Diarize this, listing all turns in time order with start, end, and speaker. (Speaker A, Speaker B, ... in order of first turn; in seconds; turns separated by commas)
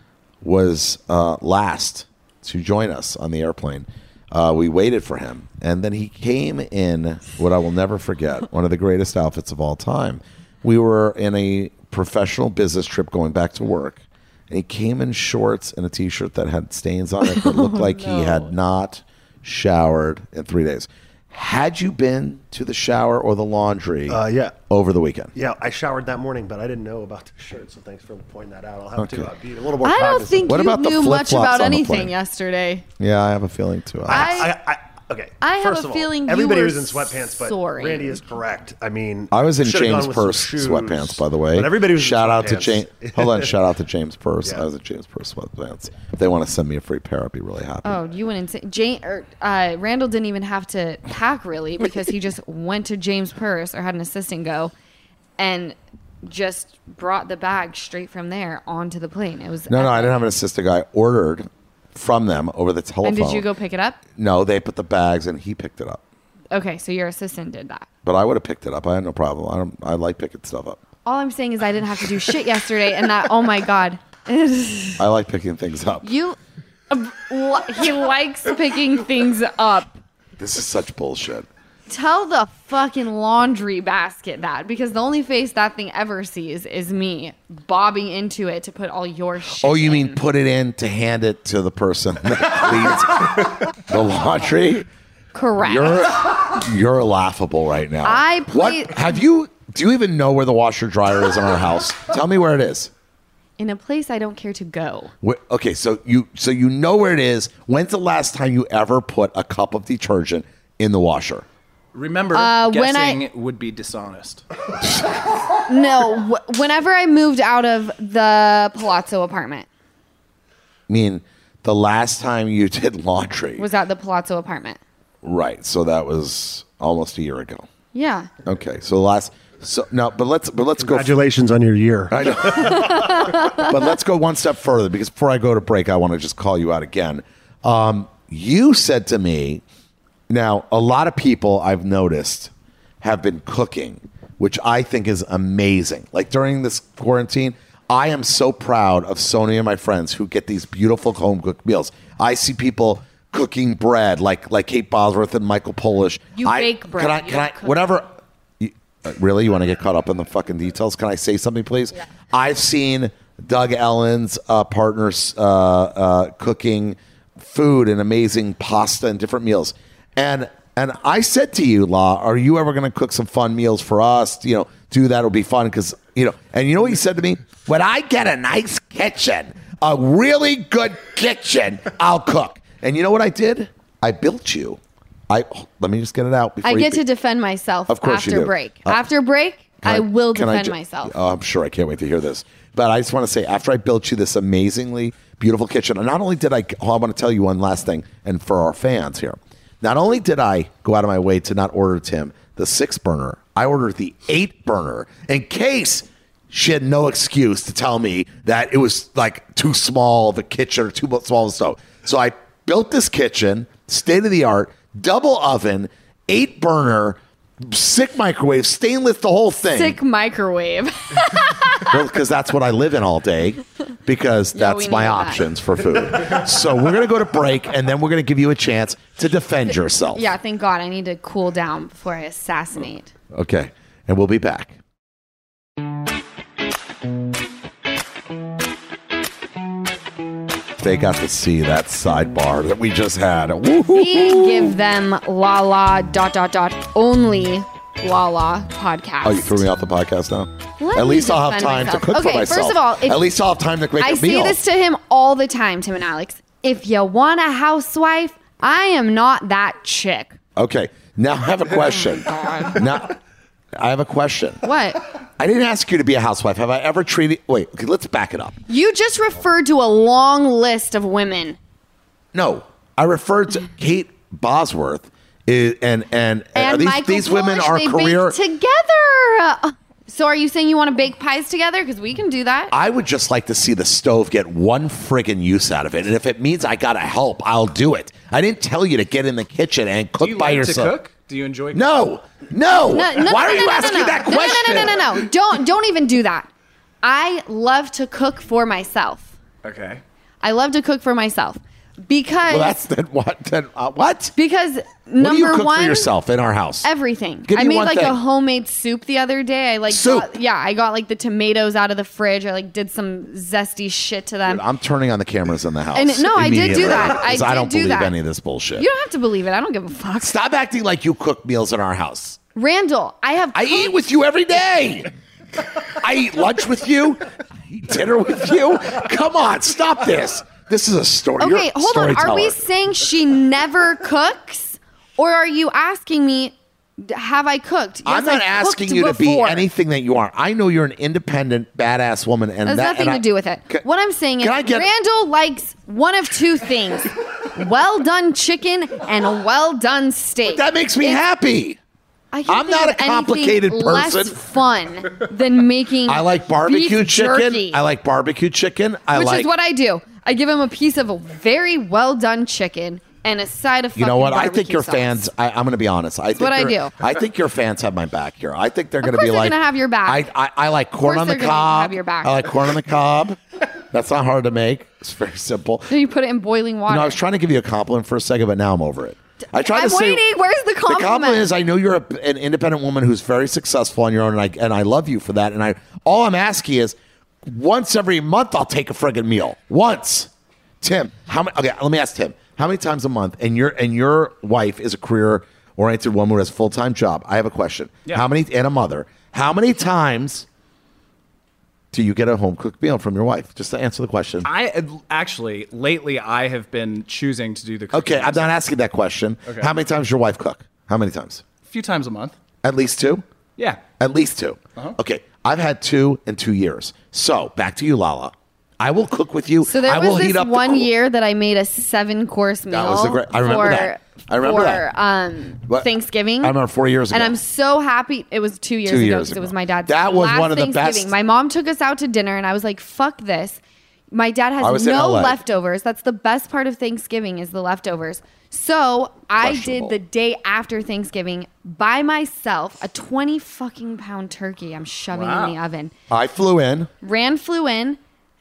Speaker A: 0.4-25.3, Speaker B: 17.2-18.5, Speaker C: 24.1-24.6, Speaker C: 25.4-30.6, Speaker A: 29.0-29.3, Speaker B: 29.8-32.9, Speaker A: 30.5-32.1, Speaker A: 33.0-34.5, Speaker C: 34.0-43.5, Speaker B: 34.1-34.5, Speaker B: 35.4-38.2, Speaker A: 39.3-48.0, Speaker B: 47.8-54.7, Speaker B: 55.4-60.2, Speaker A: 59.7-63.5, Speaker B: 63.0-64.0, Speaker A: 64.2-66.0, Speaker B: 66.5-67.9, Speaker A: 68.0-70.8, Speaker B: 71.0-75.0, Speaker A: 75.0-76.1, Speaker B: 76.0-76.4, Speaker B: 76.9-80.0, Speaker A: 80.4-81.5, Speaker B: 81.9-90.2, Speaker A: 89.6-94.9, Speaker B: 95.3-96.0, Speaker A: 95.6-102.9, Speaker B: 98.0-99.1, Speaker B: 103.6-105.1, Speaker A: 105.2-111.5, Speaker D: 111.9-114.4, Speaker B: 112.3-113.2, Speaker B: 115.7-119.7, Speaker A: 120.9-123.7, Speaker B: 123.6-124.8, Speaker A: 125.2-127.7, Speaker B: 127.9-128.3, Speaker A: 128.4-131.2, Speaker C: 130.8-133.3, Speaker A: 132.1-139.6, Speaker B: 132.8-133.6, Speaker A: 140.3-158.1, Speaker B: 156.3-157.9, Speaker A: 158.6-187.0, Speaker B: 186.6-191.1, Speaker A: 187.9-189.0, Speaker A: 189.8-220.0, Speaker B: 219.7-221.9, Speaker A: 221.9-230.3, Speaker B: 224.5-225.5, Speaker B: 230.1-233.1, Speaker A: 233.3-234.8, Speaker A: 240.8-244.8, Speaker B: 243.9-249.6, Speaker A: 249.2-254.6, Speaker B: 250.8-253.2, Speaker B: 254.0-260.4, Speaker A: 260.6-263.2, Speaker B: 262.2-262.8, Speaker A: 263.8-264.6, Speaker B: 264.6-265.0, Speaker A: 265.4-268.6, Speaker B: 268.7-271.6, Speaker A: 272.3-278.4, Speaker B: 276.6-282.7, Speaker A: 282.7-290.9, Speaker D: 290.2-291.9, Speaker A: 291.7-295.3, Speaker B: 292.9-296.5, Speaker B: 297.0-299.3, Speaker D: 299.6-300.0, Speaker B: 300.4-302.7, Speaker A: 302.5-304.4, Speaker B: 304.4-306.1, Speaker A: 305.2-306.9, Speaker B: 306.8-314.6, Speaker A: 307.4-308.2, Speaker A: 309.9-310.3, Speaker A: 314.4-318.9, Speaker B: 315.9-318.1, Speaker B: 318.8-320.4, Speaker A: 320.2-322.4, Speaker B: 322.6-323.9, Speaker A: 323.5-325.1, Speaker A: 325.8-332.6, Speaker B: 331.4-339.6, Speaker A: 338.1-343.9, Speaker B: 342.6-351.2, Speaker A: 344.4-344.9, Speaker A: 350.4-351.8, Speaker B: 352.3-357.8, Speaker A: 352.5-354.4, Speaker A: 356.1-359.5, Speaker B: 359.1-365.2, Speaker A: 363.9-375.9, Speaker B: 366.4-366.9, Speaker B: 369.0-370.3, Speaker B: 371.0-372.4, Speaker B: 375.9-377.2, Speaker A: 376.9-380.2, Speaker B: 379.5-381.5, Speaker A: 380.9-390.3, Speaker A: 390.8-400.4, Speaker A: 401.9-404.5, Speaker D: 404.4-408.5, Speaker A: 407.9-411.4, Speaker D: 411.6-412.4, Speaker A: 412.6-413.2, Speaker D: 413.6-413.8, Speaker A: 414.0-420.9, Speaker B: 419.6-426.6, Speaker A: 422.7-424.9, Speaker A: 426.4-427.4, Speaker B: 427.1-433.6, Speaker A: 428.9-431.1, Speaker B: 434.1-445.9, Speaker A: 434.6-435.4, Speaker A: 439.4-440.0, Speaker D: 445.1-445.6, Speaker A: 446.1-446.9, Speaker B: 447.0-448.0